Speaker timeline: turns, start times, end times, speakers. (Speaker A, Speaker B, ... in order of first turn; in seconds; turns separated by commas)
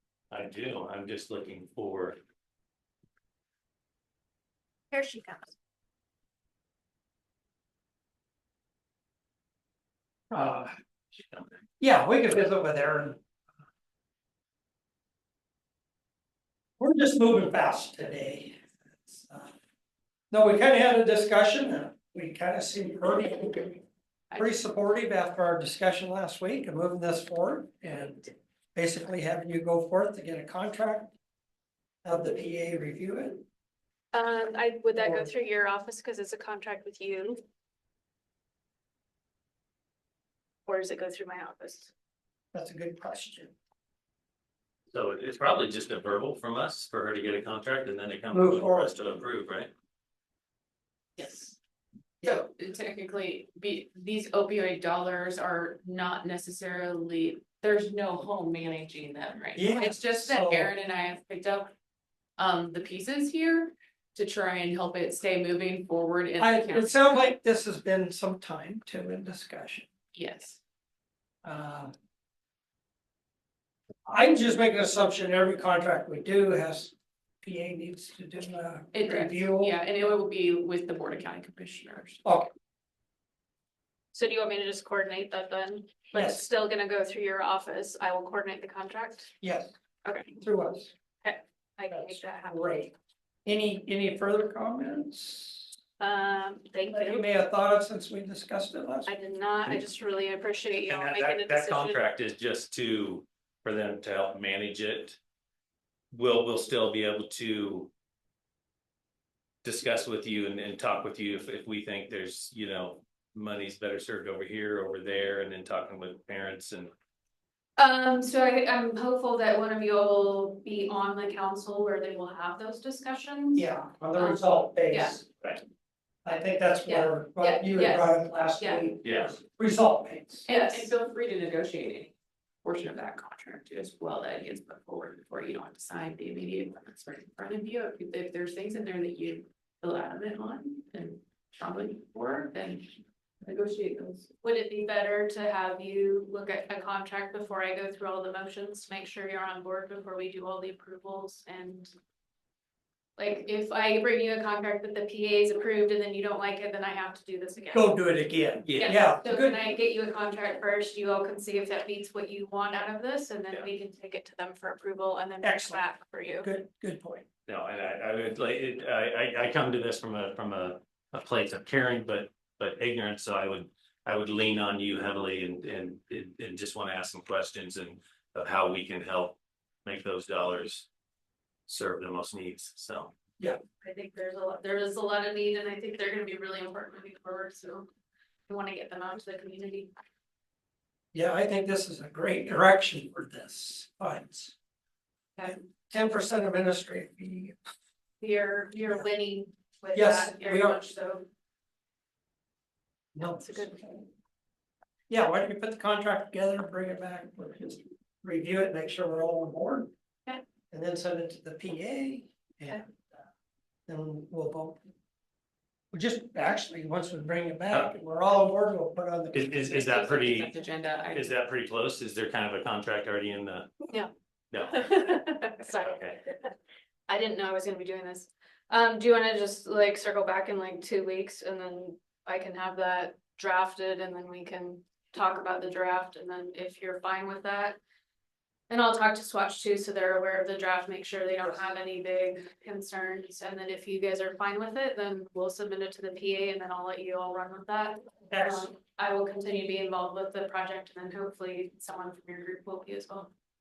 Speaker A: 0.3-2.2, Speaker B: 4.9-5.5, Speaker C: 10.3-10.7, Speaker C: 11.8-13.2, Speaker C: 16.8-19.5, Speaker C: 20.3-23.8, Speaker C: 24.3-31.1, Speaker C: 32.0-33.4, Speaker B: 34.1-37.4, Speaker C: 34.9-35.3, Speaker B: 40.6-41.9, Speaker C: 42.5-43.5, Speaker A: 44.9-49.7, Speaker C: 48.3-48.9, Speaker D: 51.1-51.6, Speaker D: 52.2-61.7, Speaker C: 59.5-60.7, Speaker D: 62.4-67.0, Speaker C: 66.4-69.9, Speaker D: 70.1-70.6, Speaker C: 71.4-71.9, Speaker C: 74.0-79.8, Speaker D: 78.9-82.2, Speaker C: 82.2-82.5, Speaker B: 84.1-89.3, Speaker C: 86.1-86.4, Speaker C: 89.4-89.7, Speaker B: 90.0-90.3, Speaker C: 90.4-90.9, Speaker B: 91.2-92.9, Speaker C: 91.9-92.9, Speaker C: 93.4-95.7, Speaker B: 96.0-97.2, Speaker C: 96.9-99.1, Speaker B: 99.1-102.0, Speaker A: 100.9-105.2, Speaker A: 106.1-107.9, Speaker A: 109.6-116.9, Speaker B: 117.8-125.2, Speaker C: 123.5-125.3, Speaker C: 126.2-130.5, Speaker B: 126.8-128.8, Speaker A: 129.0-129.3, Speaker D: 130.4-132.1, Speaker B: 130.5-130.9, Speaker D: 132.6-144.3, Speaker B: 144.4-151.9, Speaker B: 153.2-158.0, Speaker C: 157.7-159.6, Speaker A: 158.6-158.9, Speaker B: 158.8-166.5, Speaker C: 165.4-165.8, Speaker C: 166.4-167.2, Speaker A: 167.4-180.9, Speaker A: 181.7-183.1, Speaker B: 183.8-187.9, Speaker B: 188.5-189.9, Speaker C: 191.1-194.5, Speaker C: 195.5-197.6, Speaker B: 198.2-201.2, Speaker C: 199.9-200.8, Speaker C: 203.1-204.0, Speaker B: 203.2-203.8, Speaker C: 205.1-209.9, Speaker C: 210.7-213.1, Speaker C: 213.9-214.8, Speaker C: 215.9-219.8, Speaker A: 219.3-220.5, Speaker D: 219.8-221.3, Speaker A: 221.1-223.7, Speaker A: 224.5-226.2, Speaker B: 224.7-226.5, Speaker B: 227.1-237.8, Speaker B: 238.7-253.3, Speaker C: 248.3-248.7